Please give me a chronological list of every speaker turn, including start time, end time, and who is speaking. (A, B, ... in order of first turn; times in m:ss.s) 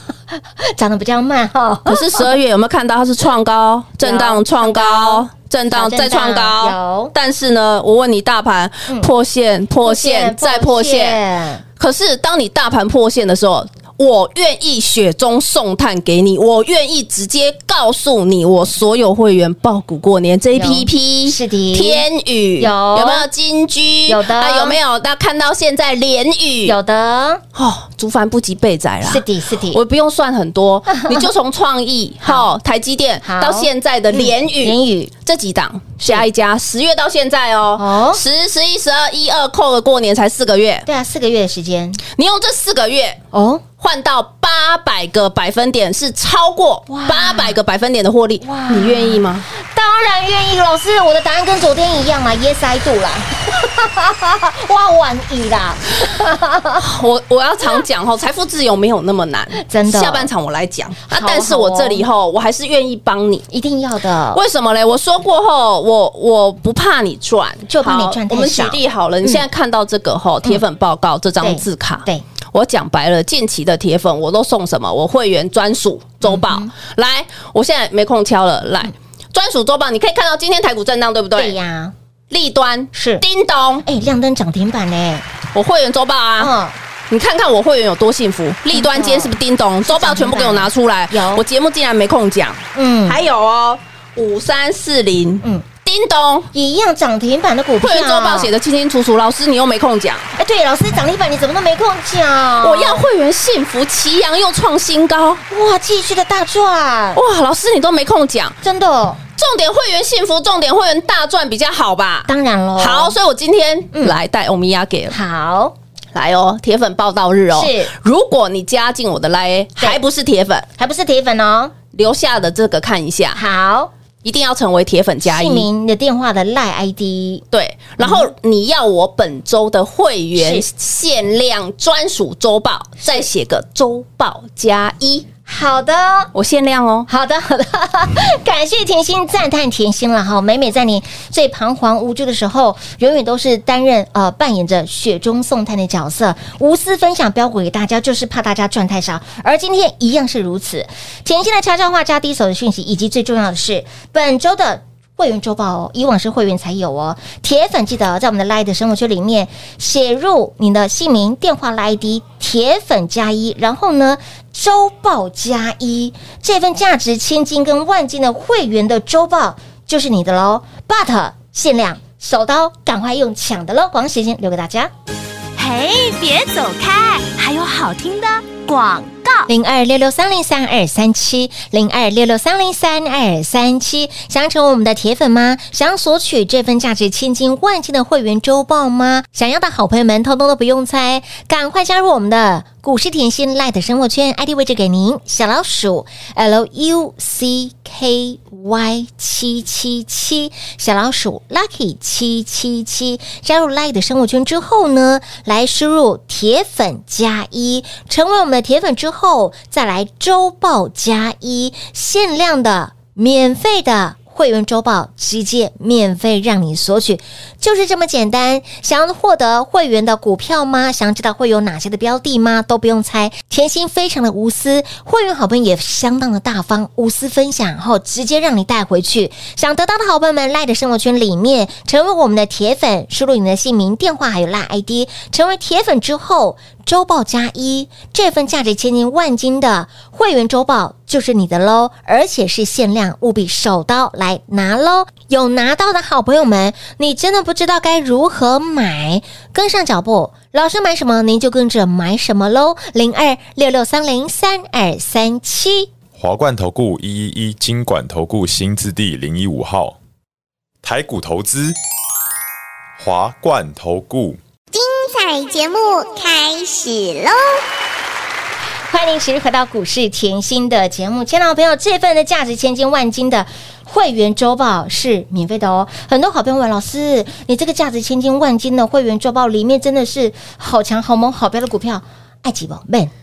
0:00.6-0:02.3 A
0:01.9-0:11.2 B
0:04.0-0:07.1 A
0:09.8-0:11.6 A
0:11.8-0:26.8 B
0:20.6-0:22.0 A
0:22.6-0:23.3 A
0:24.1-0:24.8 A
0:26.6-0:27.4 A
0:27.6-0:40.9 B
0:29.0-0:29.8 A
0:30.9-0:31.2 A
0:33.2-0:35.1 A
0:37.8-0:38.2 A
0:40.9-0:42.0 A
0:42.1-0:43.2 B
0:43.3-0:43.6 A
0:43.8-0:49.4 B
0:46.9-0:47.6 A
0:48.4-0:56.8 A
0:56.8-1:03.4 B
0:59.6-1:00.3 A
1:01.1-1:02.0 A
1:03.5-1:04.4 A
1:04.3-1:21.6 B
1:07.7-1:09.4 A
1:11.4-1:12.2 A
1:16.2-1:16.7 A
1:21.4-1:21.9 A
1:22.3-1:23.8 B
1:22.9-1:23.2 A
1:23.8-1:25.2 A
1:25.5-1:26.5 B
1:26.4-1:26.8 A
1:27.1-1:36.5 B
1:28.7-1:31.4 A
1:32.7-1:33.2 A
1:36.5-1:38.5 A
1:37.8-1:40.3 B
1:40.3-1:43.0 A
1:42.6-1:45.4 B
1:45.5-1:47.2 A
1:47.2-1:48.6 B
1:48.6-1:49.2 A
1:49.4-1:55.2 B
1:52.3-1:53.2 A
1:55.1-1:55.7 A
1:56.1-2:00.7 B
1:57.5-1:57.9 A
2:00.8-2:01.7 A
2:01.9-2:03.4 B
2:03.3-2:03.9 A
2:04.2-2:05.7 B
2:05.2-2:07.4 A
2:07.5-2:15.3 B
2:08.0-2:08.3 A
2:10.4-2:10.6 A
2:15.5-2:16.3 A
2:16.3-2:17.1 B
2:17.1-2:54.9 A
2:55.6-2:59.5 C
2:59.5-4:15.9 A
4:16.2-4:20.0 D
4:20.8-4:21.8 D
4:23.0-4:24.4 D
4:24.7-4:27.6 E
4:28.9-4:43.1 A